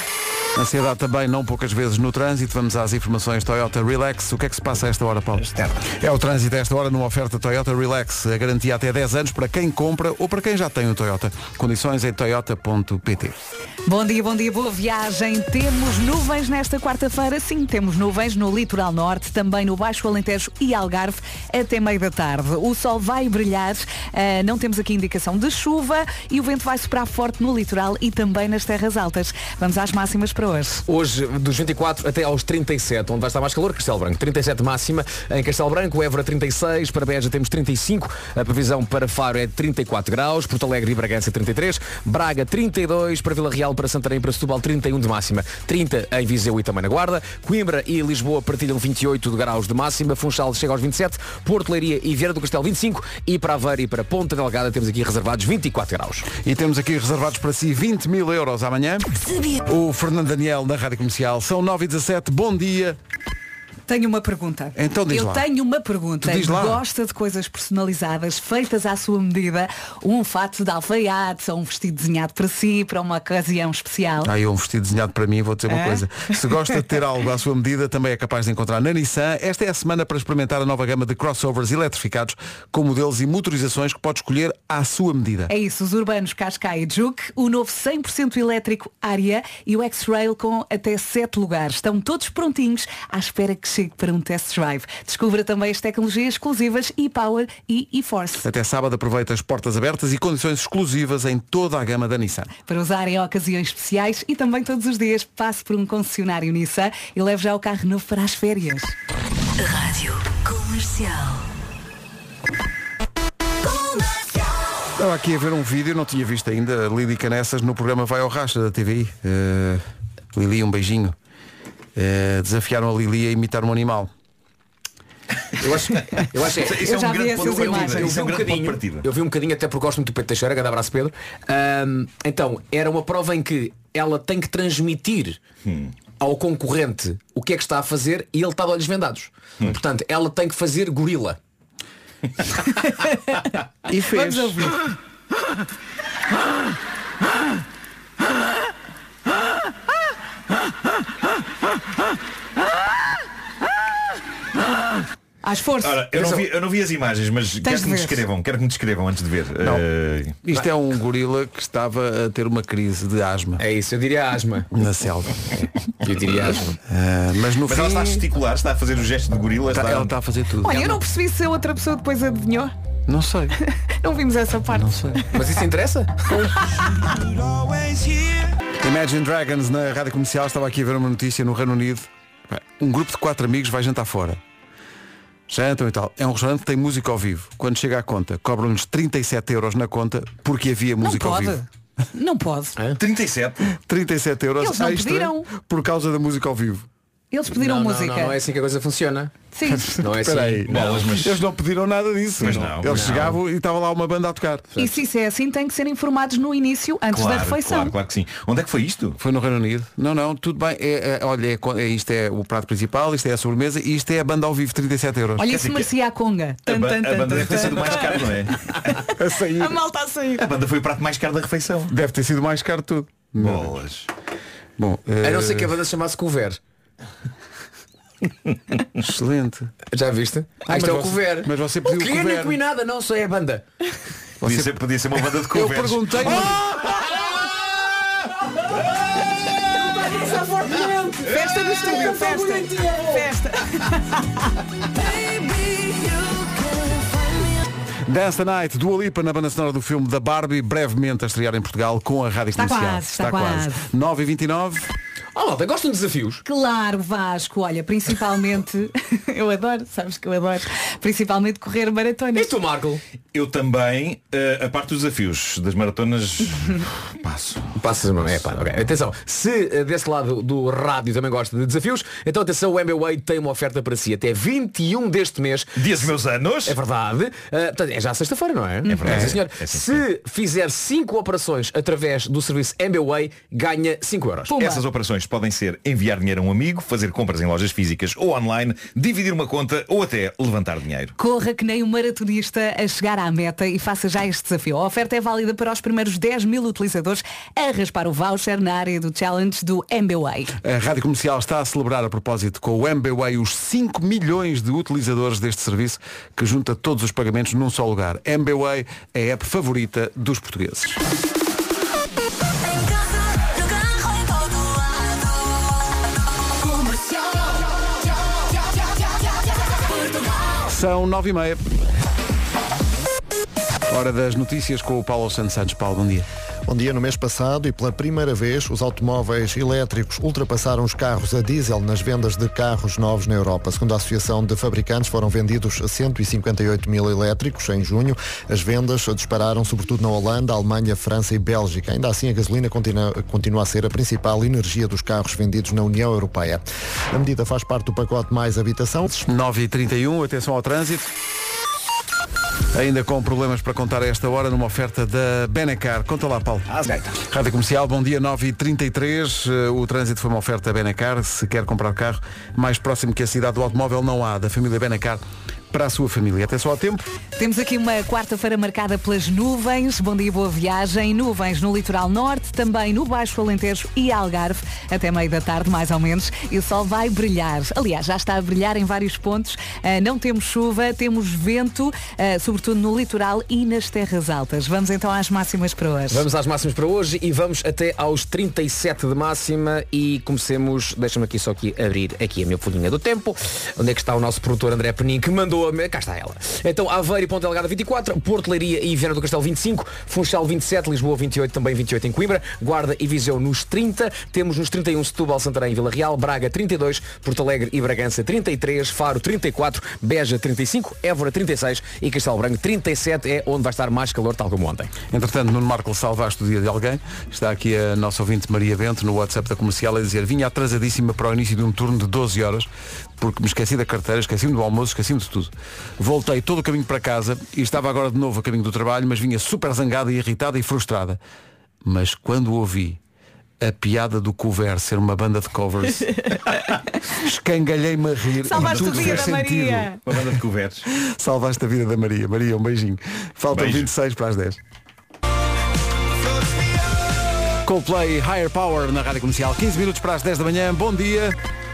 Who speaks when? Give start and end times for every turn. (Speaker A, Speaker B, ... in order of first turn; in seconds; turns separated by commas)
Speaker A: 0.6-13.3, Speaker B: 13.9-30.8, Speaker C: 30.9-56.3, Speaker A: 56.4-59.1, Speaker A: 59.6-63.0, Speaker B: 63.9-74.3, Speaker A: 64.8-65.5, Speaker A: 66.2-66.8, Speaker A: 74.2-85.5, Speaker B: 75.7-76.0, Speaker B: 85.5-98.5, Speaker A: 98.4-102.5, Speaker B: 102.7-108.9, Speaker D: 109.6-111.4, Speaker D: 113.7-114.1, Speaker A: 115.0-119.8, Speaker A: 120.3-121.2, Speaker A: 122.0-124.1, Speaker C: 125.6-135.4, Speaker E: 126.2-129.1, Speaker B: 126.7-128.1, Speaker E: 135.7-135.9, Speaker C: 136.2-141.4, Speaker A: 143.9-144.8, Speaker B: 144.1-144.7, Speaker B: 155.4-156.0, Speaker E: 155.8-160.4, Speaker C: 156.2-156.4, Speaker B: 157.6-158.2, Speaker A: 160.4-163.6, Speaker C: 163.6-164.7, Speaker A: 164.7-165.5, Speaker C: 166.0-166.8, Speaker A: 166.9-168.2, Speaker E: 167.7-170.2, Speaker A: 169.7-171.0, Speaker B: 170.6-172.7, Speaker A: 173.1-173.6, Speaker B: 174.0-174.9, Speaker A: 174.7-175.3, Speaker C: 175.3-176.4, Speaker A: 178.8-184.4, Speaker A: 185.5-191.6, Speaker B: 191.0-192.8, Speaker E: 193.0-193.6, Speaker A: 193.8-196.9, Speaker B: 194.6-195.5, Speaker B: 197.3-198.4, Speaker C: 197.5-199.3, Speaker B: 199.5-199.9, Speaker A: 199.7-204.7, Speaker C: 200.0-201.0, Speaker E: 200.7-201.4, Speaker E: 202.4-203.2, Speaker C: 202.5-203.4, Speaker B: 204.8-207.9, Speaker E: 207.1-209.2, Speaker A: 209.2-215.5, Speaker B: 215.4-218.3, Speaker E: 215.4-215.9, Speaker E: 216.7-219.0, Speaker A: 219.2-219.8, Speaker B: 219.6-220.4, Speaker E: 220.4-221.9, Speaker A: 221.9-223.8, Speaker E: 223.4-224.1, Speaker A: 224.8-225.7, Speaker C: 225.2-226.6, Speaker A: 229.0-229.7, Speaker C: 229.9-233.7, Speaker A: 230.7-232.6, Speaker A: 234.4-234.8, Speaker E: 234.4-236.4, Speaker A: 235.5-236.7, Speaker B: 241.2-244.3, Speaker C: 242.7-243.0, Speaker A: 248.1-254.9, Speaker B: 252.6-253.8, Speaker C: 255.3-256.4, Speaker B: 256.4-262.5, Speaker C: 262.4-263.0, Speaker E: 263.3-267.7, Speaker C: 267.8-276.1, Speaker E: 268.2-268.5, Speaker E: 275.8-276.8, Speaker C: 276.6-284.6, Speaker E: 278.9-280.0, Speaker B: 284.5-284.8, Speaker E: 284.5-291.1, Speaker B: 291.2-300.5, Speaker A: 300.6-311.0, Speaker D: 312.7-315.2, Speaker A: 320.7-321.6, Speaker A: 323.9-326.3, Speaker F: 326.7-349.1, Speaker A: 349.1-351.1, Speaker A: 352.7-356.7, Speaker E: 356.7-357.1, Speaker A: 357.3-367.1, Speaker B: 367.4-386.2, Speaker C: 386.1-414.9, Speaker A: 415.1-431.2, Speaker A: 431.8-433.0, Speaker A: 433.6-436.2, Speaker A: 437.1-440.0, Speaker B: 438.4-440.0, Speaker E: 438.6-439.4, Speaker E: 440.1-440.9, Speaker A: 441.0-444.6, Speaker E: 443.5-443.9, Speaker A: 447.6-451.4